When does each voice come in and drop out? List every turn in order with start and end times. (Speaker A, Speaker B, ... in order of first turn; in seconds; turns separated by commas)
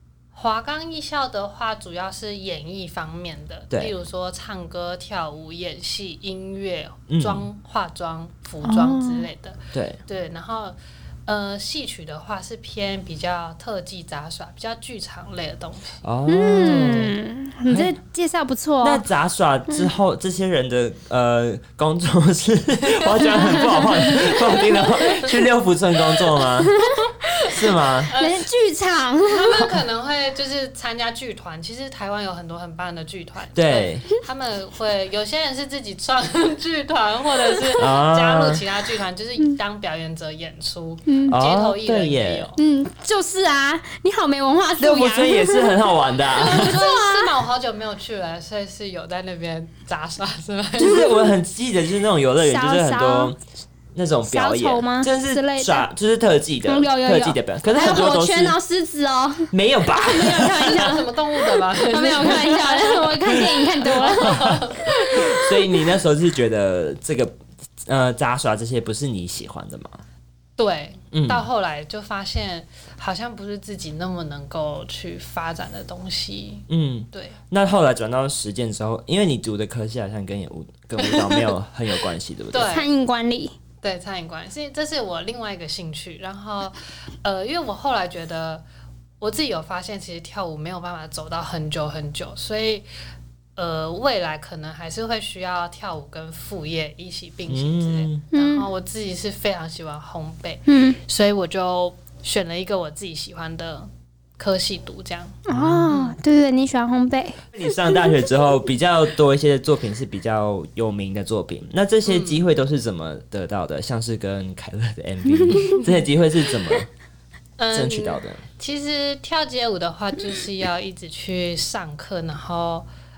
Speaker A: 0.3-16.0, Speaker B: 7.1-7.5, Speaker C: 8.6-9.3, Speaker B: 9.7-10.0, Speaker B: 16.0-17.2, Speaker C: 16.3-19.0, Speaker B: 18.8-26.8, Speaker A: 23.1-25.2, Speaker C: 26.6-27.1, Speaker B: 27.4-28.1, Speaker A: 27.5-28.5, Speaker C: 28.1-29.7, Speaker A: 29.2-42.6, Speaker B: 33.5-34.0, Speaker B: 37.8-38.6, Speaker C: 41.1-41.4, Speaker B: 41.3-42.5, Speaker C: 42.6-45.8, Speaker B: 44.8-46.8, Speaker A: 46.4-51.1, Speaker C: 46.4-47.3, Speaker B: 50.8-53.4, Speaker C: 50.9-51.2, Speaker C: 52.4-53.3, Speaker B: 53.9-58.6, Speaker C: 54.2-55.9, Speaker C: 56.6-65.4, Speaker B: 59.5-61.0, Speaker A: 60.6-65.5, Speaker B: 64.2-70.0, Speaker A: 70.6-77.4, Speaker B: 71.1-71.5, Speaker B: 76.7-82.8, Speaker A: 81.0-81.5, Speaker A: 82.5-82.9, Speaker C: 82.6-83.5, Speaker A: 83.8-88.6, Speaker A: 89.2-92.9, Speaker A: 93.6-103.9, Speaker B: 97.5-98.2, Speaker C: 98.3-98.7, Speaker C: 100.7-101.0, Speaker A: 104.4-106.2, Speaker C: 105.5-107.4, Speaker B: 105.5-105.9, Speaker B: 107.5-116.9, Speaker A: 112.0-112.4, Speaker C: 115.5-115.8, Speaker A: 117.6-122.9, Speaker B: 117.7-118.4